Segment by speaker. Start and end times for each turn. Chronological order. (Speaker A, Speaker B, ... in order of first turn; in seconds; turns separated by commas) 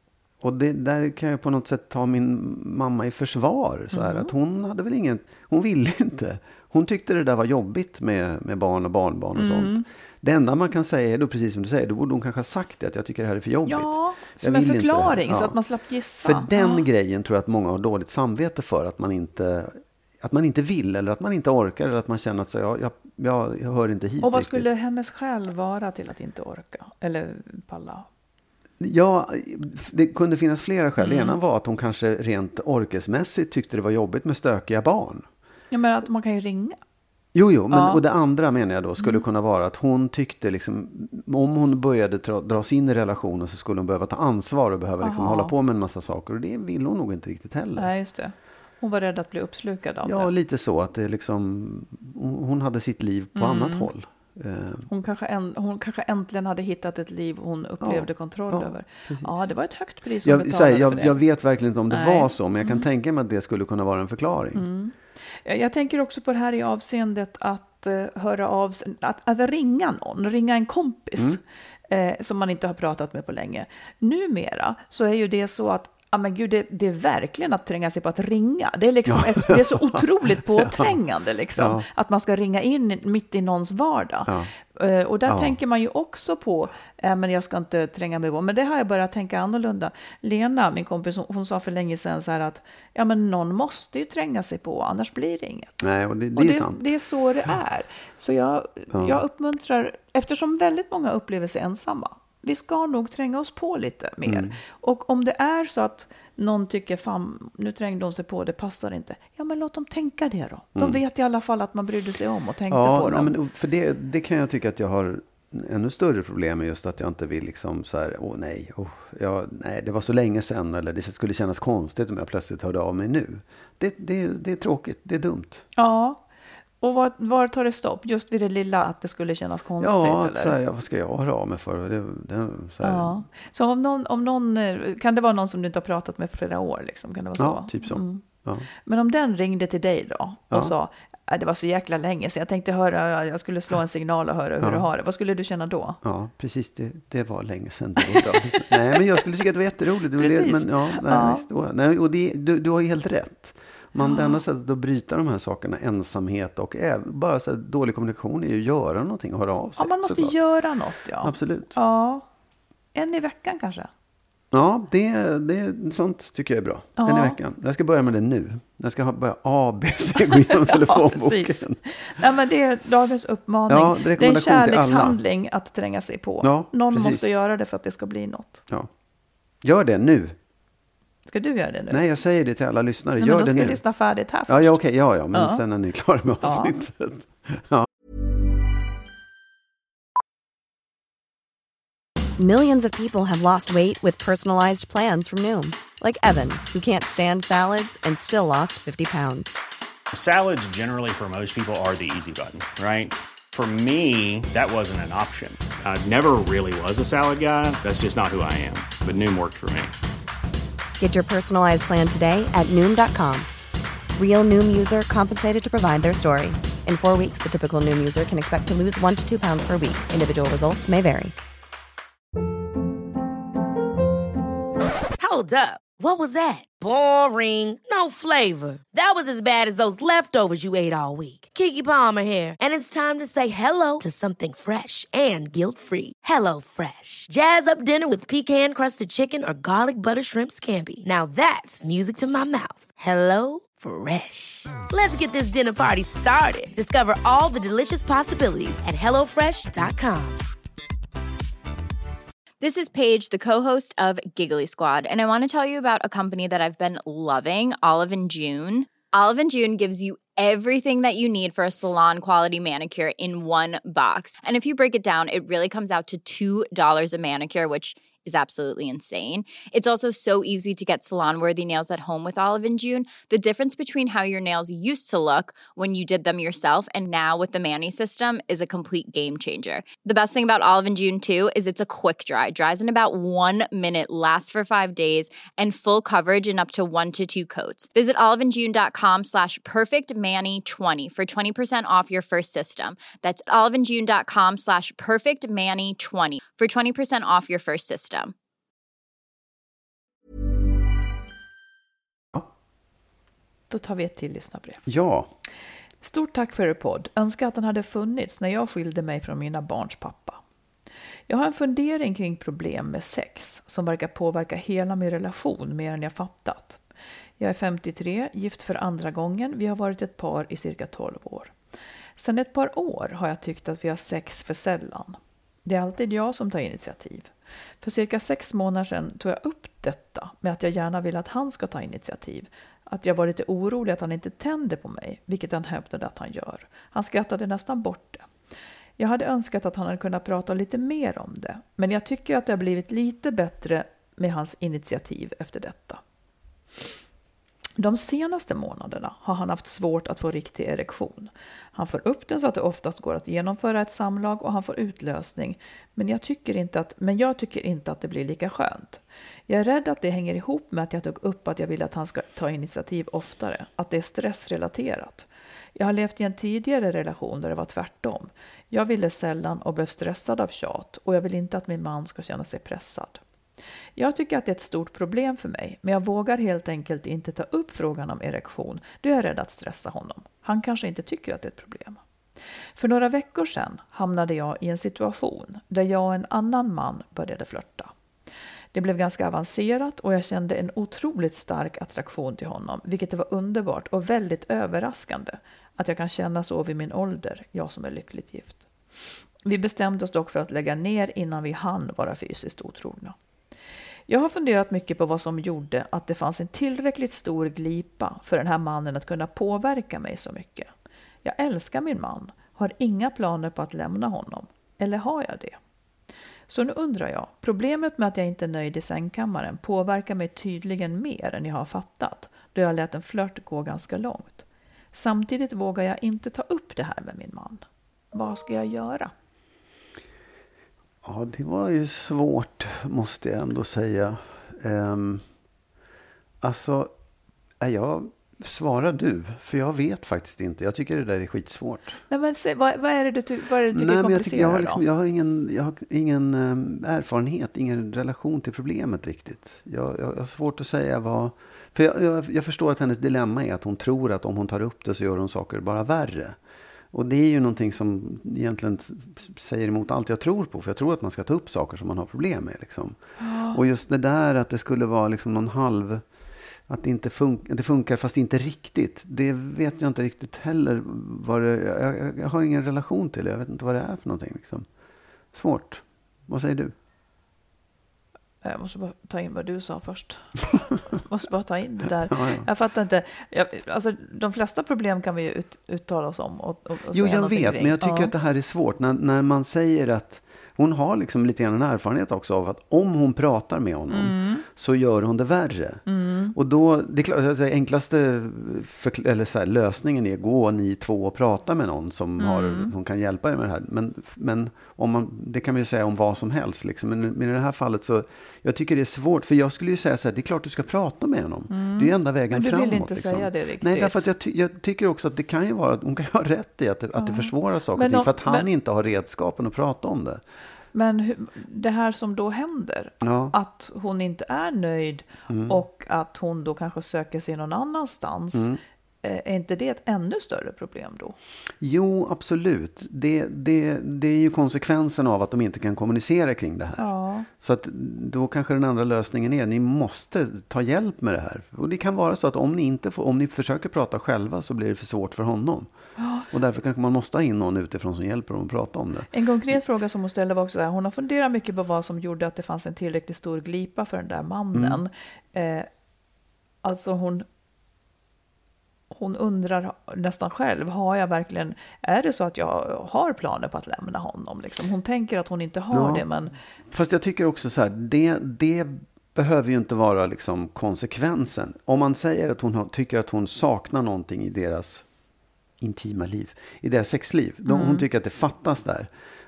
Speaker A: 0.4-15.6, Speaker B: 3.9-4.3, Speaker B: 9.3-9.8, Speaker B: 13.7-16.8, Speaker A: 16.2-24.7, Speaker B: 24.2-28.1, Speaker A: 28.8-35.2, Speaker B: 31.0-31.4, Speaker B: 35.7-36.8, Speaker A: 37.3-47.9, Speaker B: 37.7-38.0, Speaker B: 45.0-45.5, Speaker B: 47.8-50.3, Speaker A: 50.0-54.9, Speaker B: 53.4-53.9, Speaker B: 54.9-61.2, Speaker A: 57.8-59.4, Speaker A: 60.2-64.7, Speaker B: 61.9-62.9, Speaker B: 64.5-95.8, Speaker A: 79.1-81.0, Speaker A: 81.6-81.8, Speaker A: 84.2-84.5, Speaker A: 85.3-85.5, Speaker A: 95.8-96.8, Speaker B: 96.3-113.3, Speaker A: 98.9-99.2, Speaker A: 104.2-104.6, Speaker A: 110.8-111.0, Speaker A: 112.7-125.6, Speaker B: 125.8-126.2, Speaker B: 126.8-130.6, Speaker A: 129.8-133.2, Speaker B: 132.8-146.0, Speaker A: 137.4-138.7, Speaker A: 144.6-144.8, Speaker A: 146.0-160.4, Speaker B: 148.1-149.0, Speaker B: 150.2-151.4, Speaker B: 154.0-154.4, Speaker B: 159.8-162.2, Speaker A: 161.2-161.7, Speaker B: 162.9-163.9, Speaker A: 164.5-171.8, Speaker B: 167.0-167.4, Speaker B: 170.2-178.6, Speaker A: 173.7-175.2, Speaker A: 176.4-177.3, Speaker A: 179.6-180.3, Speaker B: 181.2-182.0, Speaker A: 181.9-183.8, Speaker B: 183.2-184.8, Speaker A: 184.5-187.9, Speaker B: 185.3-185.6, Speaker B: 186.4-186.8, Speaker C: 192.4-199.6, Speaker D: 200.1-209.9, Speaker C: 211.0-213.5, Speaker C: 214.2-221.3, Speaker E: 225.2-250.4, Speaker F: 252.6-298.3, Speaker B: 303.7-304.8, Speaker A: 304.9-305.3, Speaker B: 306.0-310.4, Speaker B: 311.3-316.8, Speaker B: 317.4-321.5, Speaker B: 322.2-327.3, Speaker B: 327.8-338.3, Speaker B: 339.0-346.0, Speaker B: 347.8-373.2, Speaker B: 373.9-382.0, Speaker B: 382.8-387.9, Speaker B: 388.7-398.6, Speaker B: 399.4-403.1, Speaker B: 404.1-410.7, Speaker B: 411.2-415.6, Speaker B: 416.5-429.1, Speaker A: 431.0-435.2, Speaker A: 436.4-436.9, Speaker A: 437.6-442.0, Speaker B: 442.1-444.8, Speaker A: 443.7-456.4, Speaker A: 456.9-466.0, Speaker B: 463.2-463.6, Speaker A: 466.7-474.6, Speaker A: 475.3-476.7, Speaker B: 478.4-480.4, Speaker B: 480.9-488.1, Speaker A: 482.1-482.5, Speaker A: 486.9-495.8, Speaker B: 493.9-494.4, Speaker B: 495.9-496.3, Speaker A: 496.3-520.2, Speaker B: 502.2-502.7, Speaker B: 511.5-514.1, Speaker B: 517.0-518.5, Speaker B: 520.7-528.5, Speaker A: 523.0-523.3, Speaker A: 525.3-525.6, Speaker A: 528.3-528.6, Speaker B: 529.0-531.1, Speaker A: 531.6-545.7, Speaker B: 536.8-537.3, Speaker B: 546.0-546.3, Speaker A: 546.3-549.1, Speaker B: 549.1-555.7, Speaker A: 554.5-554.8, Speaker B: 556.6-557.2, Speaker B: 558.9-566.3, Speaker A: 565.7-566.0, Speaker A: 566.7-574.9, Speaker A: 575.6-578.9, Speaker B: 577.5-577.9